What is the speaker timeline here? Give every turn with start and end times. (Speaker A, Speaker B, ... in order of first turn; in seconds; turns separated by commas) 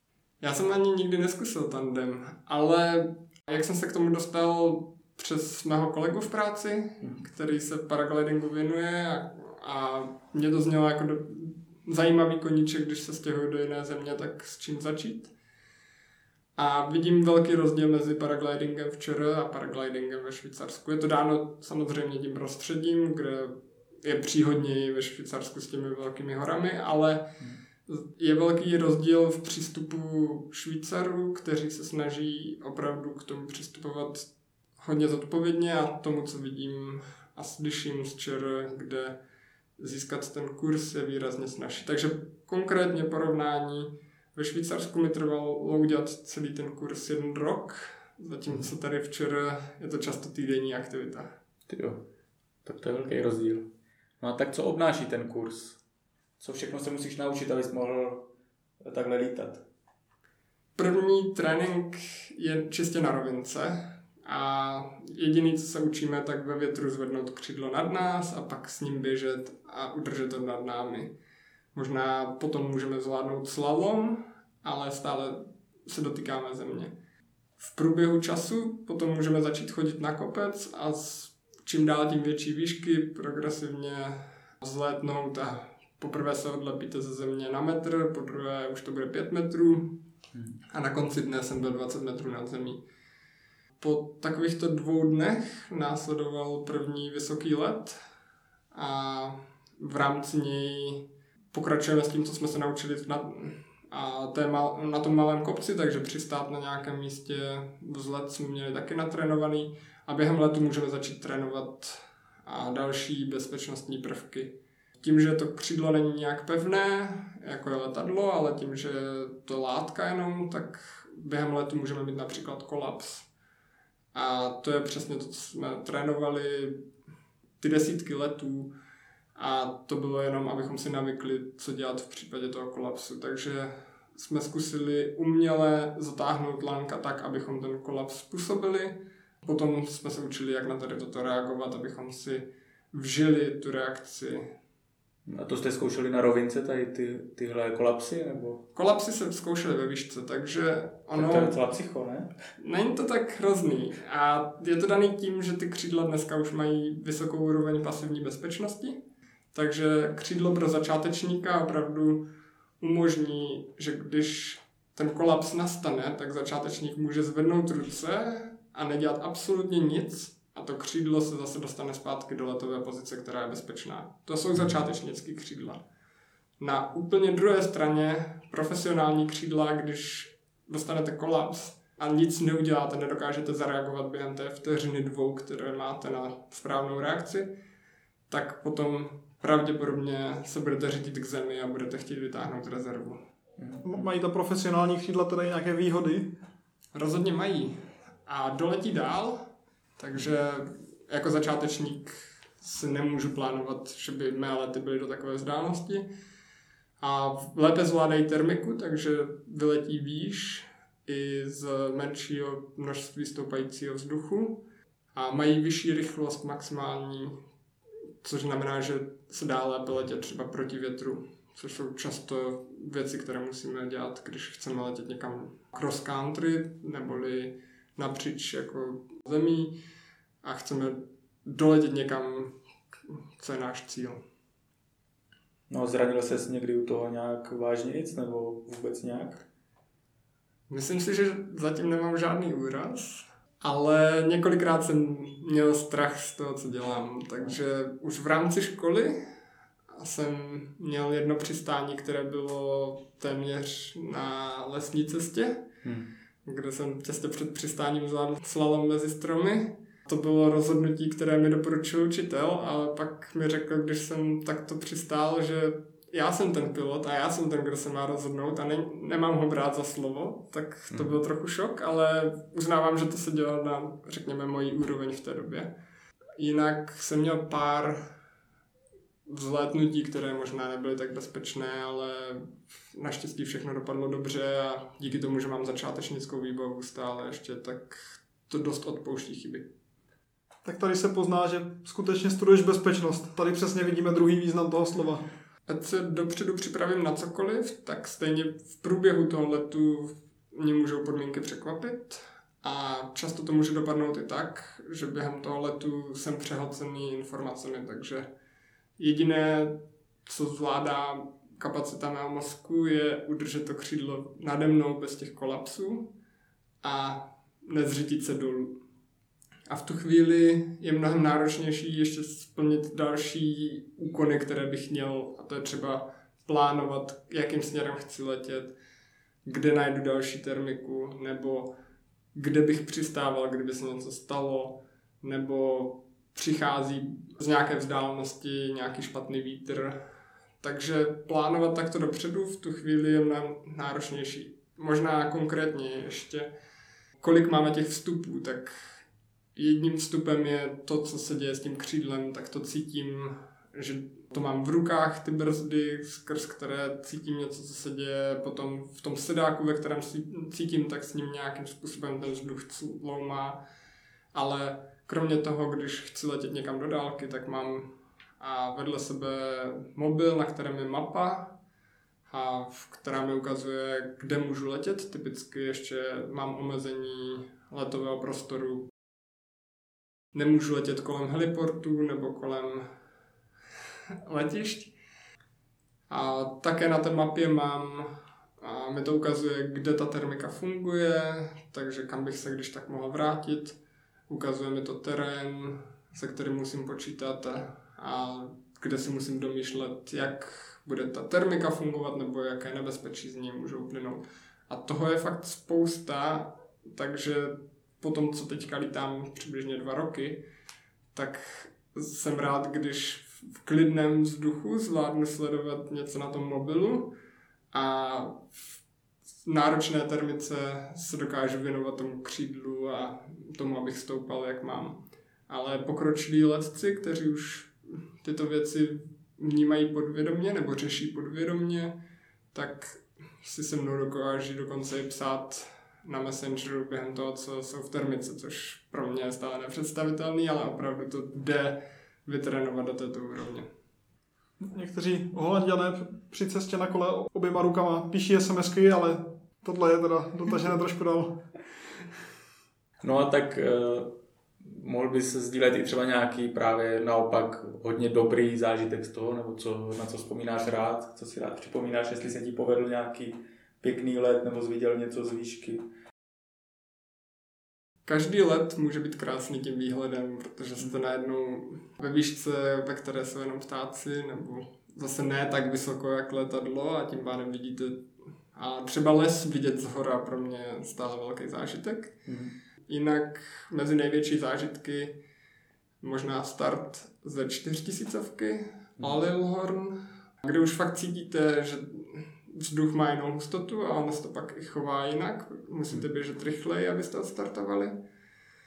Speaker A: 0.4-15.3, Speaker A: 16.6-27.3, Speaker A: 27.9-39.2, Speaker A: 39.8-51.3, Speaker B: 51.7-52.0, Speaker B: 52.6-53.7, Speaker B: 54.2-55.8, Speaker B: 56.4-58.3, Speaker B: 58.8-59.6, Speaker A: 60.8-71.1, Speaker A: 71.7-76.9, Speaker A: 77.6-90.0, Speaker A: 90.7-92.8, Speaker A: 93.8-98.0, Speaker A: 98.7-123.3, Speaker A: 124.1-126.8, Speaker A: 127.6-128.7, Speaker A: 129.3-144.5, Speaker B: 145.2-148.6, Speaker A: 148.7-151.6, Speaker B: 151.2-152.4, Speaker A: 152.6-159.0, Speaker A: 159.5-162.2, Speaker A: 162.8-175.8, Speaker A: 176.6-187.5, Speaker A: 188.3-193.2, Speaker B: 193.6-194.0, Speaker C: 193.8-196.3, Speaker A: 196.9-206.1, Speaker A: 207.0-217.4, Speaker A: 218.2-229.8, Speaker A: 230.4-232.5, Speaker A: 233.1-234.2, Speaker B: 235.7-239.4, Speaker A: 240.7-249.2, Speaker A: 249.9-255.6, Speaker B: 255.8-256.1, Speaker A: 256.4-275.7, Speaker B: 270.9-271.2, Speaker A: 276.4-278.1, Speaker A: 279.2-289.7, Speaker C: 290.6-295.2, Speaker A: 295.7-308.3, Speaker A: 309.0-316.1, Speaker A: 316.8-318.8, Speaker A: 319.7-328.7, Speaker A: 329.4-331.8, Speaker A: 332.3-340.0, Speaker A: 340.6-346.5, Speaker A: 347.2-348.9, Speaker A: 349.6-363.6, Speaker A: 364.3-371.6, Speaker A: 372.3-378.9, Speaker A: 380.3-382.9, Speaker A: 384.2-384.9, Speaker A: 386.1-410.4, Speaker A: 411.1-417.1, Speaker A: 417.7-418.6, Speaker A: 419.4-432.0, Speaker A: 432.5-443.7, Speaker C: 444.6-451.4, Speaker B: 453.0-465.8, Speaker A: 468.0-482.2, Speaker B: 482.2-482.6, Speaker A: 482.9-485.2, Speaker A: 486.0-497.9